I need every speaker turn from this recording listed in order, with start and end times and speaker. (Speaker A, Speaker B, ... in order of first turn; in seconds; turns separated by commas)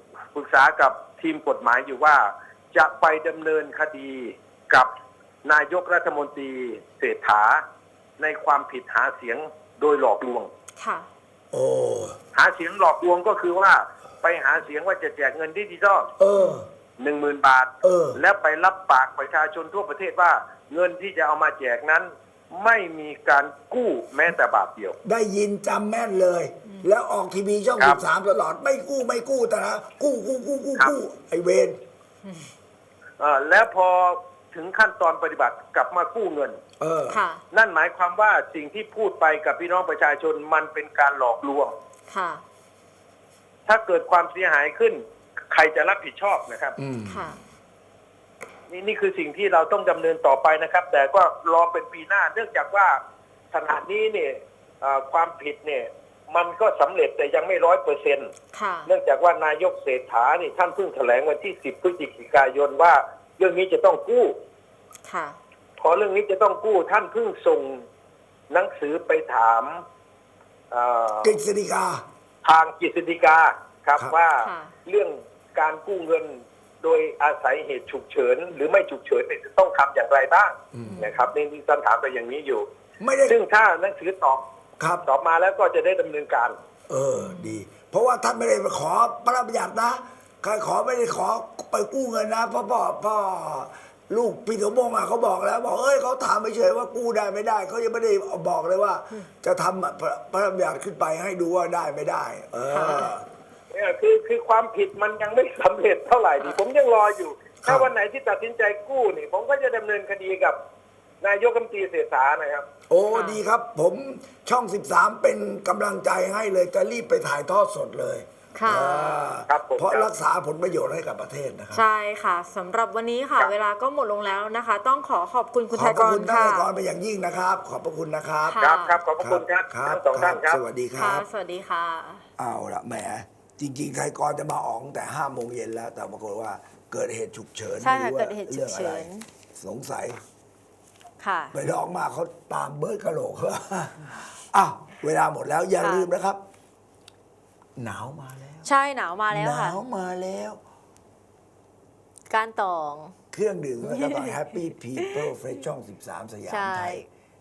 Speaker A: 0.3-4.9, Speaker A: 5.4-7.6, Speaker A: 8.2-10.5, Speaker B: 10.8-11.1, Speaker C: 11.5-12.2, Speaker A: 12.3-16.1, Speaker C: 16.2-16.7, Speaker B: 16.3-16.6, Speaker A: 17.0-25.0, Speaker C: 17.8-18.2, Speaker C: 25.0-31.8, Speaker B: 32.2-32.5, Speaker A: 33.2-36.6, Speaker C: 36.8-37.2, Speaker B: 37.1-37.4, Speaker A: 37.5-41.7, Speaker B: 42.1-42.4, Speaker A: 43.7-46.8, Speaker C: 46.8-47.4, Speaker B: 47.1-47.4, Speaker A: 48.7-53.0, Speaker A: 53.5-58.3, Speaker B: 58.5-58.9, Speaker A: 58.9-64.4, Speaker B: 65.0-65.4, Speaker A: 65.8-67.8, Speaker A: 68.5-69.8, Speaker A: 70.7-71.4, Speaker C: 71.2-72.0, Speaker A: 72.4-82.7, Speaker B: 74.4-74.7, Speaker C: 80.7-81.0, Speaker B: 80.8-81.3, Speaker C: 83.0-83.4, Speaker A: 83.2-84.4, Speaker C: 84.8-85.0, Speaker A: 85.0-86.6, Speaker C: 86.9-103.2, Speaker B: 87.2-87.6, Speaker B: 102.7-103.1, Speaker A: 103.7-110.6, Speaker C: 107.6-107.9, Speaker A: 111.2-112.7, Speaker C: 112.9-121.8, Speaker B: 113.1-113.4, Speaker B: 118.5-119.4, Speaker A: 119.5-120.1, Speaker B: 121.7-126.7, Speaker C: 125.7-128.6, Speaker B: 128.5-129.0, Speaker A: 128.6-130.6, Speaker C: 129.2-131.2, Speaker B: 130.9-132.2, Speaker C: 132.4-140.2, Speaker B: 137.8-139.2, Speaker B: 141.2-141.5, Speaker C: 141.5-146.4, Speaker B: 145.8-146.1, Speaker C: 147.8-148.7, Speaker B: 148.6-149.8, Speaker C: 149.3-150.6, Speaker B: 152.3-153.1, Speaker C: 153.3-157.0, Speaker B: 153.8-155.3, Speaker B: 156.5-157.1